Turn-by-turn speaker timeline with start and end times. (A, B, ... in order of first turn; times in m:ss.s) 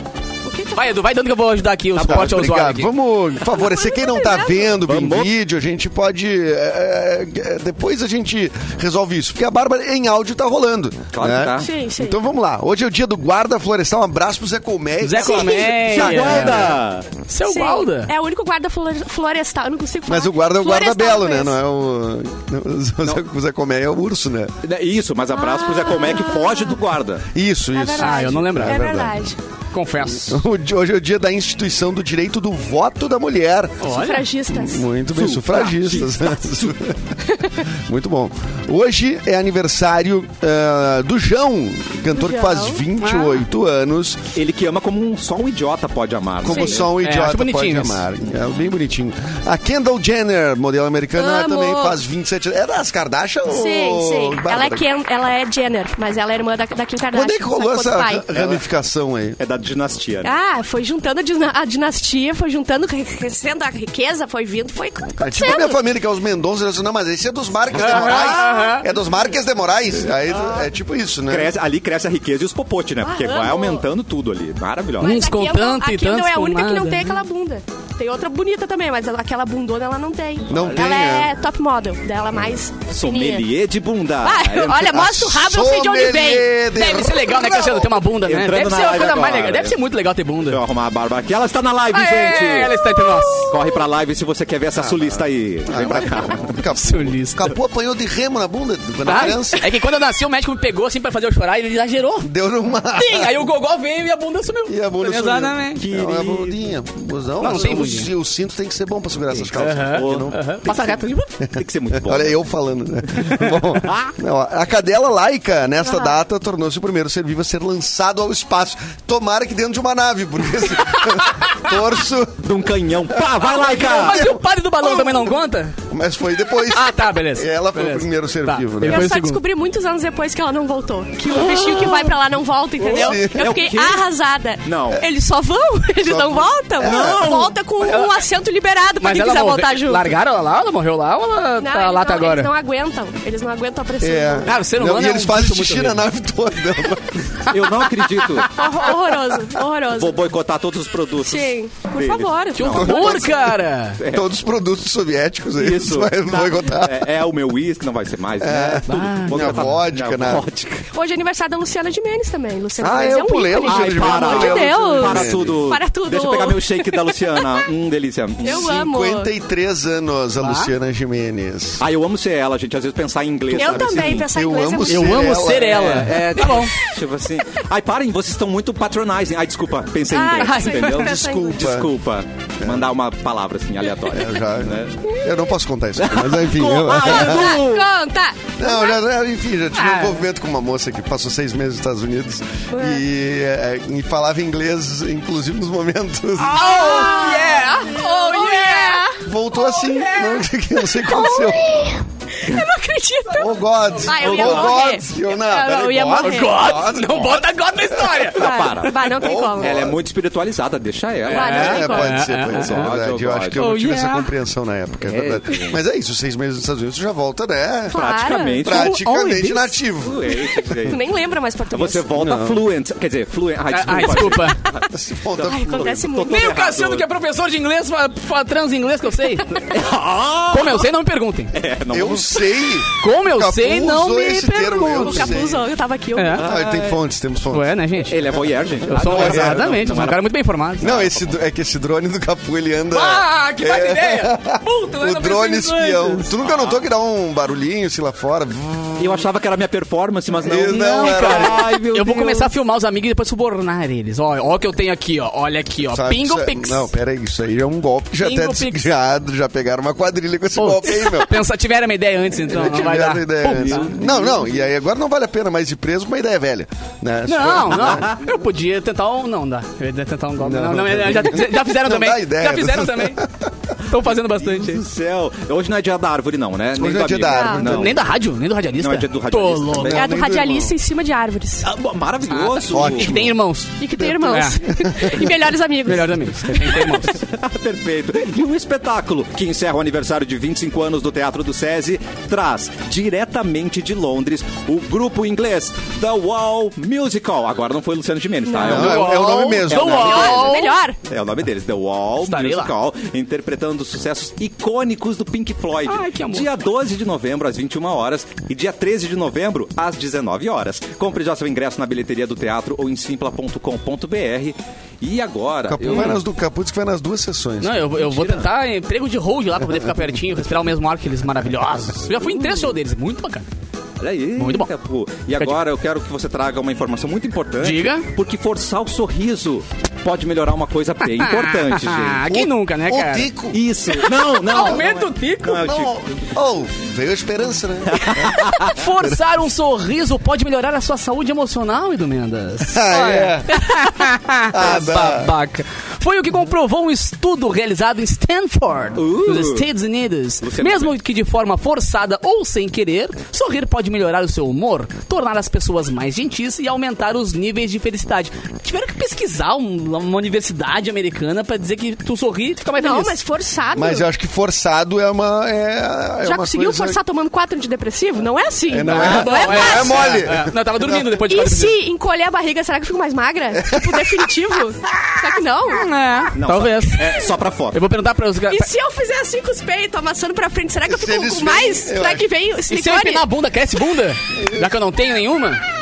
0:00.4-0:01.0 A
0:00.8-0:02.9 B
0:02.0-0:02.3 C
0:02.1-0:16.8 D
0:03.6-0:04.7 A
0:04.9-0:05.3 C
0:11.1-0:11.7 C
0:11.6-0:12.2 A
0:15.0-0:16.7 B
0:15.2-0:15.8 A
0:15.8-0:17.1 C
0:17.3-0:18.1 B
0:17.5-0:21.6 A
0:20.1-0:24.5 D
0:24.6-0:27.2 C
0:25.4-0:26.8 A
0:27.3-0:29.4 D
0:27.7-0:29.4 A
0:28.0-0:28.9 B
0:29.7-0:30.4 B
0:30.1-0:37.2 D
0:33.8-0:34.3 B
0:33.9-0:34.8 A
0:35.1-0:36.8 C
0:37.7-0:44.3 D
0:42.2-0:42.8 A
0:43.0-0:43.4 B
0:44.4-0:47.0 C
0:46.4-0:54.8 D
0:46.5-0:46.8 A
0:47.0-0:48.0 B
0:51.2-0:52.0 A
0:53.5-0:58.3 A
0:57.1-0:59.4 D
0:58.4-0:58.6 C
0:59.4-1:00.3 C
1:00.2-1:05.8 A
1:05.2-1:11.5 D
1:07.7-1:08.9 B
1:07.8-1:08.8 A
1:11.3-1:15.2 C
1:13.0-1:13.8 A
1:15.0-1:17.2 B
1:15.0-1:23.4 A
1:20.5-1:21.3 D
1:22.9-1:24.8 C
1:24.2-1:26.4 A
1:24.7-1:30.6 B
1:24.7-1:27.9 D
1:28.2-1:29.8 C
1:30.5-1:32.9 C
1:31.9-1:33.5 B
1:33.5-1:36.6 C
1:35.7-1:39.7 D
1:36.8-1:37.4 B
1:39.0-1:42.3 B
1:42.2-1:43.4 D
1:42.9-1:45.8 B
1:44.7-1:50.4 D
1:45.8-1:46.7 C
1:47.4-1:48.1 B
1:49.5-1:51.3 B
1:49.9-1:51.0 C
1:51.4-2:02.5 D
1:51.5-1:52.4 C
1:53.2-1:54.1 C
1:55.8-1:56.2 A
2:00.9-2:01.7 B
2:02.4-2:04.3 C
2:03.1-2:04.4 D
2:03.5-2:05.8 B
2:04.9-2:05.2 A
2:05.9-2:09.1 D
2:06.7-2:09.4 B
2:08.9-2:20.1 A
2:12.8-2:13.6 D
2:13.3-2:14.0 C
2:14.6-2:15.0 C
2:16.0-2:17.4 D
2:16.8-2:17.6 C
2:17.8-2:18.2 B
2:19.0-2:22.5 B
2:21.6-2:24.5 A
2:24.0-2:27.4 D
2:24.4-2:26.1 B
2:27.5-2:28.7 C
2:28.5-2:30.2 A
2:29.9-2:33.2 C
2:31.2-2:33.3 A
2:32.6-2:34.0 B
2:32.7-2:37.1 D
2:34.0-2:34.3 C
2:35.6-2:40.9 C
2:38.4-2:40.5 D
2:38.9-2:39.8 B
2:40.9-2:47.6 A
2:42.8-2:45.6 D
2:43.6-2:48.8 C
2:48.4-2:49.3 A
2:48.4-2:51.8 D
2:50.4-2:50.7 B
2:51.8-2:54.3 C
2:53.5-2:55.4 A
2:53.6-2:56.2 D
2:54.9-2:56.7 B
2:55.8-3:05.0 C
3:00.1-3:01.8 A
3:00.4-3:01.0 B
3:01.0-3:01.9 D
3:02.6-3:02.9 D
3:04.1-3:07.6 D
3:06.0-3:07.9 C
3:06.9-3:09.0 A
3:08.6-3:17.0 D
3:09.8-3:10.2 B
3:12.7-3:13.0 A
3:16.4-3:19.1 B
3:16.6-3:20.1 A
3:19.2-3:21.8 D
3:19.9-3:20.2 B
3:21.0-3:26.8 A
3:23.3-3:28.3 D
3:24.0-3:24.6 B
3:24.2-3:24.8 C
3:26.2-3:28.6 B
3:28.4-3:33.7 C
3:28.4-3:29.9 A
3:29.1-3:30.0 D
3:31.3-3:32.9 B
3:31.3-3:32.2 A
3:31.4-3:38.0 D
3:33.6-3:34.3 B
3:35.0-3:35.8 C
3:37.9-3:38.6 A
3:37.9-3:38.9 C
3:38.6-3:40.4 D
3:38.7-3:39.7 B
3:40.0-3:41.0 C
3:40.8-3:42.1 A
3:41.7-3:47.1 C
3:42.2-3:42.6 D
3:43.7-3:44.6 B
3:44.9-3:46.0 D
3:45.4-3:46.5 A
3:46.3-3:49.6 B
3:49.5-3:50.9 C
3:50.5-3:51.5 B
3:51.5-3:52.7 C
3:51.9-3:55.7 D
3:53.0-3:55.4 B
3:54.6-3:56.5 A
3:56.2-3:56.4 B
3:56.3-3:57.0 C
3:56.4-3:57.8 D
3:57.5-3:58.2 B
3:58.1-4:00.2 C
3:58.9-4:00.0 D
3:58.9-4:00.9 B
4:00.8-4:01.4 C
4:00.8-4:09.3 D
4:02.9-4:06.3 B
4:06.4-4:06.8 C
4:09.0-4:12.5 C
4:10.4-4:11.6 D
4:10.7-4:16.9 B
4:15.9-4:21.4 D
4:18.2-4:18.9 B
4:20.6-4:23.9 B
4:22.5-4:28.2 D
4:23.4-4:24.5 C
4:27.3-4:33.2 B
4:27.8-4:28.2 C
4:30.4-4:33.5 D
4:33.9-4:34.8 B
4:34.0-4:38.1 C
4:36.8-4:38.0 D
4:37.3-4:37.6 A
4:37.6-4:40.0 B
4:38.8-4:40.1 C
4:39.8-4:40.8 D
4:39.9-4:41.7 A
4:41.6-4:43.2 C
4:42.3-4:44.6 B
4:42.7-4:43.3 D
4:43.8-4:46.2 A
4:44.0-4:45.2 D
4:45.8-4:47.2 B
4:46.8-5:16.2 C
4:58.5-4:58.9 A
4:58.6-5:00.5 D
4:58.6-5:00.8 B
5:00.0-5:01.0 A
5:02.2-5:02.7 B
5:05.9-5:06.5 B
5:15.7-5:18.4 D
5:15.9-5:16.2 B
5:17.6-5:23.4 B
5:24.0-5:32.3 C
5:24.4-5:24.7 B
5:27.6-5:28.1 B
5:31.0-5:33.3 B
5:32.3-5:33.6 D
5:33.5-5:36.2 C
5:34.2-5:35.7 B
5:34.5-5:34.9 D
5:35.6-5:39.2 D
5:37.9-5:38.8 C
5:38.4-6:03.2 B
5:42.6-5:43.6 D
5:44.5-5:45.3 D
5:48.9-5:49.7 C
5:50.4-5:50.9 C
6:02.8-6:04.1 A
6:03.7-6:07.0 D
6:06.2-6:10.2 A
6:08.7-6:11.2 D
6:08.8-6:11.8 B
6:09.0-6:09.6 C
6:11.3-6:15.9 A
6:13.5-6:14.3 D
6:15.7-6:18.7 B
6:16.3-6:17.8 C
6:18.5-6:23.3 A
6:20.9-6:22.3 D
6:22.7-6:25.6 B
6:24.3-6:24.7 D